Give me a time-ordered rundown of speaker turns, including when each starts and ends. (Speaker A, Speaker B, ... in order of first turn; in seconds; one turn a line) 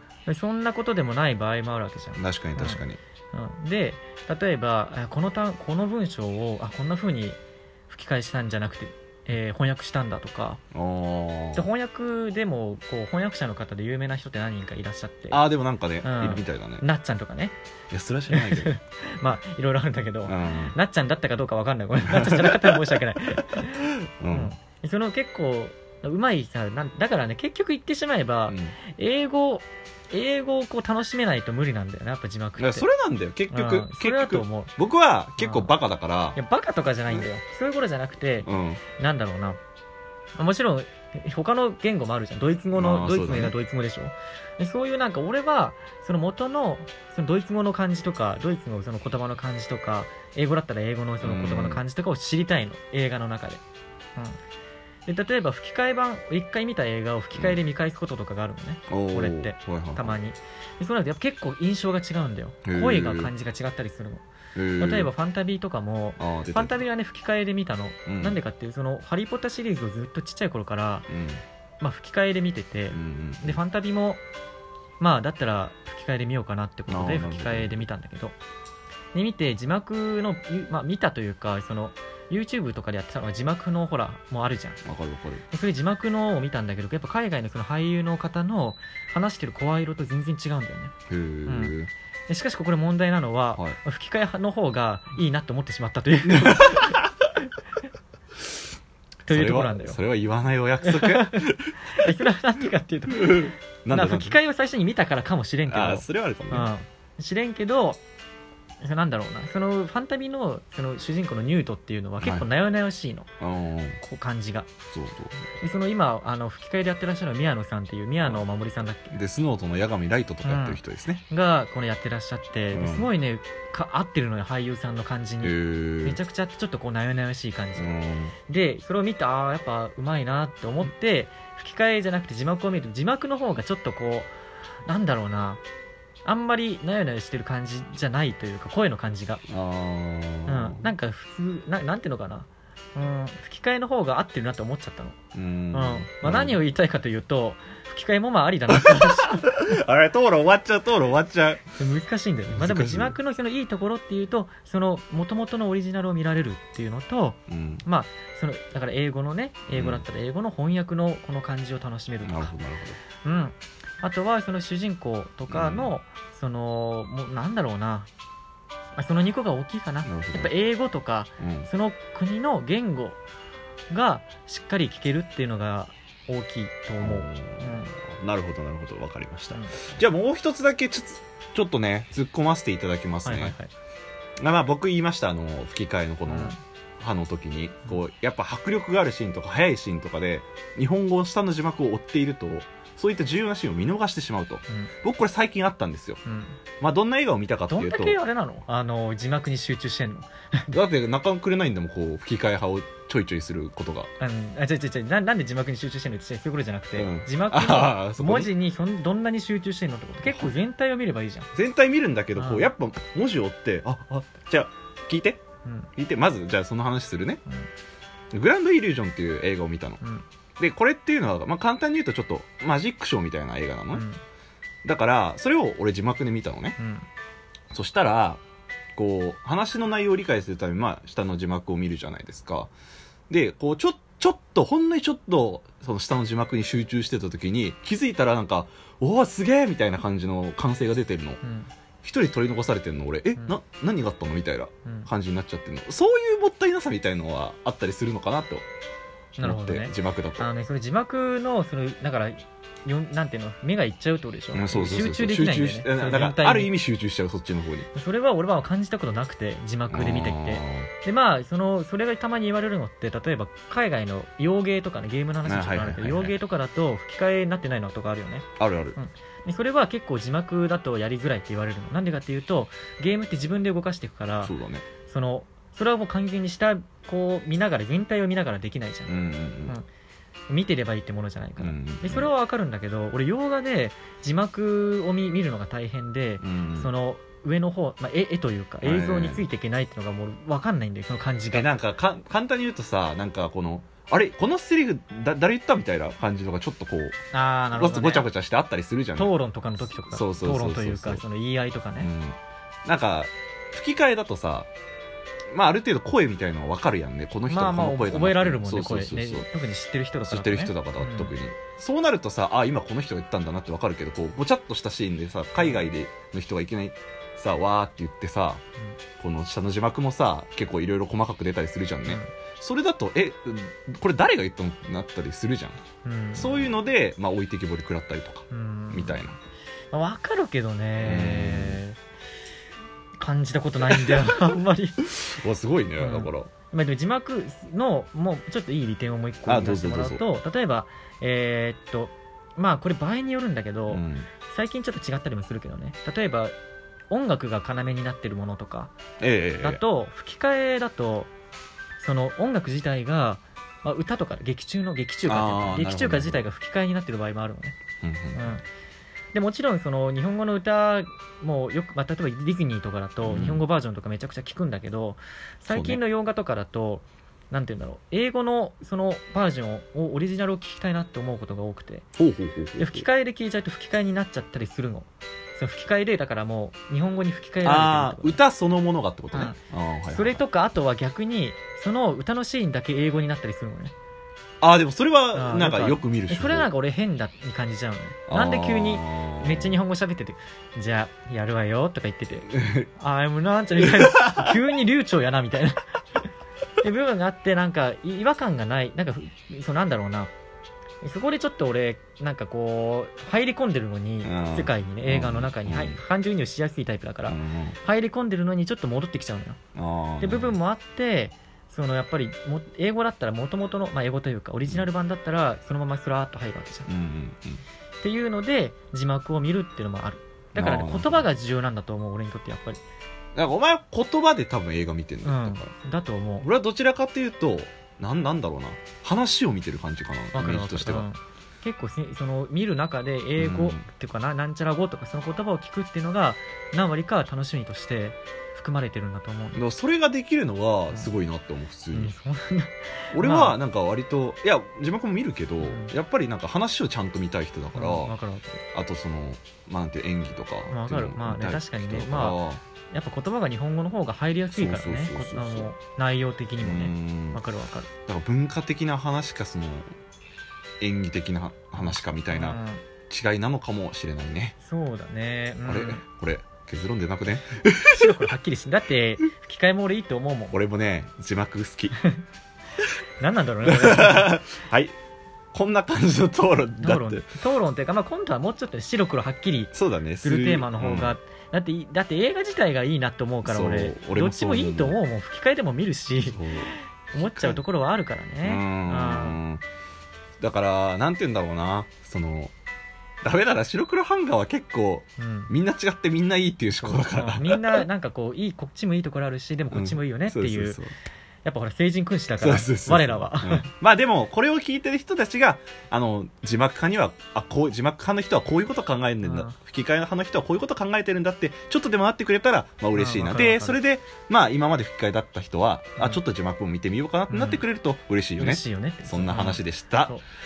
Speaker A: 0.3-2.8
Speaker B: 2.1-3.0
Speaker A: 3.3-10.6
Speaker B: 10.7-11.7
Speaker A: 11.6-15.4
Speaker B: 15.3-16.9
Speaker A: 16.0-17.6
Speaker B: 17.9-18.7
Speaker A: 18.3-32.9
Speaker B: 20.3-20.8
Speaker B: 22.0-23.0
Speaker B: 23.8-24.5
Speaker B: 28.5-28.8
Speaker B: 32.6-36.4
Speaker A: 33.5-34.7
Speaker A: 35.4-35.8
Speaker A: 36.4-39.6
Speaker B: 38.4-38.9
Speaker A: 40.4-53.6
Speaker B: 42.7-43.5
Speaker B: 51.2-51.8
Speaker A: 55.1-64.2
Speaker B: 57.3-57.6
Speaker B: 58.9-60.2
Speaker B: 62.6-63.3
Speaker B: 64.5-65.1
Speaker A: 64.8-71.1
Speaker B: 66.2-66.8
Speaker B: 68.0-68.4
Speaker B: 71.1-71.4
Speaker A: 71.8-74.2
Speaker B: 72.9-73.6
Speaker A: 75.0-78.4
Speaker B: 76.9-77.9
Speaker A: 79.1-84.8
Speaker B: 84.8-85.4
Speaker A: 85.5-90.9
Speaker B: 91.1-91.9
Speaker A: 91.5-91.8
Speaker A: 92.3-97.0
Speaker B: 96.3-97.2
Speaker A: 99.3-100.0
Speaker B: 99.3-102.1
Speaker A: 100.8-108.0
Speaker B: 103.1-104.4
Speaker B: 105.7-106.7
Speaker A: 108.8-113.3
Speaker B: 112.2-112.5
Speaker B: 113.4-114.0
Speaker A: 114.0-114.7
Speaker B: 114.9-115.5
Speaker A: 115.6-119.2
Speaker B: 118.2-118.5
Speaker B: 119.1-121.2
Speaker A: 120.4-127.9
Speaker B: 122.7-123.1
Speaker B: 125.4-126.2
Speaker B: 127.8-128.4
Speaker A: 128.5-134.3
Speaker A: 134.9-135.6
Speaker A: 136.2-139.4
Speaker B: 139.5-140.9
Speaker A: 140.5-145.2
Speaker B: 145.3-146.6
Speaker A: 145.7-149.5
Speaker B: 148.7-151.7
Speaker A: 151.8-162.5
Speaker B: 152.5-153.2
Speaker B: 157.5-157.9
Speaker B: 159.7-160.1
Speaker B: 162.2-163.0
Speaker A: 163.2-168.1
Speaker B: 165.5-165.9
Speaker A: 169.0-173.2
Speaker B: 170.1-170.5
Speaker B: 171.4-171.7
Speaker A: 173.9-177.9
Speaker B: 177.0-183.6
Speaker A: 179.5-179.9
Speaker A: 183.2-183.7
Speaker B: 184.4-196.2
Speaker A: 186.3-186.6
Speaker A: 196.3-196.6
Speaker B: 196.8-198.2
Speaker A: 197.7-200.8
Speaker B: 200.7-204.1
Speaker A: 204.2-211.5
Speaker B: 207.0-208.5
Speaker B: 210.3-210.5
Speaker B: 211.5-215.4
Speaker A: 212.4-212.7
Speaker A: 215.7-215.9
Speaker B: 215.9-217.4
Speaker B: 218.3-220.0
Speaker B: 220.6-224.1
Speaker A: 223.9-224.2
Speaker B: 224.8-226.8
Speaker A: 226.8-227.1
Speaker B: 227.7-228.4
Speaker B: 229.0-232.7
Speaker B: 233.3-241.4
Speaker A: 241.4-241.7
Speaker B: 242.0-248.7
Speaker A: 249.4-256.7
Speaker B: 249.4-250.5
Speaker B: 254.5-257.9
Speaker A: 257.9-274.5
Speaker B: 259.9-260.9
Speaker B: 265.4-266.4
Speaker B: 268.6-269.0
Speaker B: 274.4-274.9
Speaker A: 275.1-279.1
Speaker B: 279.1-279.8
Speaker A: 280.5-291.7
Speaker B: 281.6-282.3
Speaker B: 286.4-286.9
Speaker B: 288.8-289.5
Speaker B: 291.5-297.2
Speaker A: 297.3-298.3
Speaker B: 297.7-299.3
Speaker A: 299.2-302.1
Speaker B: 299.9-301.2
Speaker B: 302.0-304.7
Speaker B: 305.5-309.5
Speaker A: 307.5-311.3
Speaker B: 310.3-318.6
Speaker A: 315.6-315.9
Speaker B: 319.2-325.8
Speaker A: 322.1-322.3
Speaker A: 326.0-326.7
Speaker B: 326.4-329.4
Speaker A: 328.5-329.2
Speaker A: 329.9-332.0
Speaker B: 331.0-331.8
Speaker A: 333.2-335.0
Speaker B: 333.9-334.4
Speaker B: 335.1-336.6
Speaker A: 336.0-346.5
Speaker B: 339.5-340.2
Speaker B: 343.9-344.3
Speaker A: 347.1-348.9
Speaker B: 349.2-349.8
Speaker A: 349.6-351.3
Speaker A: 352.0-357.8
Speaker B: 355.3-356.4
Speaker B: 358.0-358.6
Speaker A: 358.4-358.6
Speaker A: 359.3-372.1
Speaker B: 363.2-363.6
Speaker B: 365.7-366.0
Speaker B: 372.2-373.1
Speaker A: 372.8-378.4
Speaker B: 377.6-380.4
Speaker A: 380.1-383.9
Speaker B: 384.6-386.7
Speaker A: 385.3-396.0
Speaker B: 388.3-389.8
Speaker B: 392.5-392.9
Speaker B: 393.8-394.6
Speaker A: 396.8-400.3
Speaker A: 401.0-409.6
Speaker B: 404.2-406.0
Speaker B: 407.2-407.8
Speaker B: 409.8-410.6
Speaker A: 410.2-416.9
Speaker B: 416.9-417.6
Speaker A: 418.0-422.8
Speaker B: 420.6-421.3
Speaker B: 423.4-425.8
Speaker A: 425.2-426.5
Speaker B: 426.4-431.1
Speaker A: 430.3-439.6
Speaker B: 433.4-433.9
Speaker B: 439.6-442.1
Speaker A: 441.9-443.6
Speaker B: 443.1-448.1
Speaker A: 445.6-445.9
Speaker A: 447.8-448.6
Speaker B: 448.7-452.6
Speaker A: 450.7-457.9
Speaker B: 454.5-455.7
Speaker B: 456.6-457.4
Speaker B: 458.0-459.9
Speaker B: 460.8-464.6
Speaker A: 461.8-462.9
Speaker A: 464.6-466.0
Speaker B: 465.6-468.2
Speaker A: 467.9-470.6
Speaker B: 470.5-472.0
Speaker A: 473.2-474.4
Speaker B: 473.6-474.9
Speaker B: 475.5-477.4
Speaker A: 476.8-479.7
Speaker B: 479.7-481.2
Speaker A: 480.2-486.4
Speaker B: 483.4-485.0
Speaker B: 486.2-487.6
Speaker A: 487.1-489.4
Speaker B: 488.4-489.6
Speaker B: 490.4-492.5
Speaker B: 493.2-497.9
Speaker A: 495.2-495.5
Speaker A: 496.8-500.8
Speaker B: 499.7-500.9
Speaker A: 501.4-503.7
Speaker B: 502.4-520.1
Speaker A: 509.2-509.5
Speaker A: 512.9-513.8
Speaker A: 516.0-516.2
Speaker A: 517.3-517.6
Speaker A: 518.4-520.2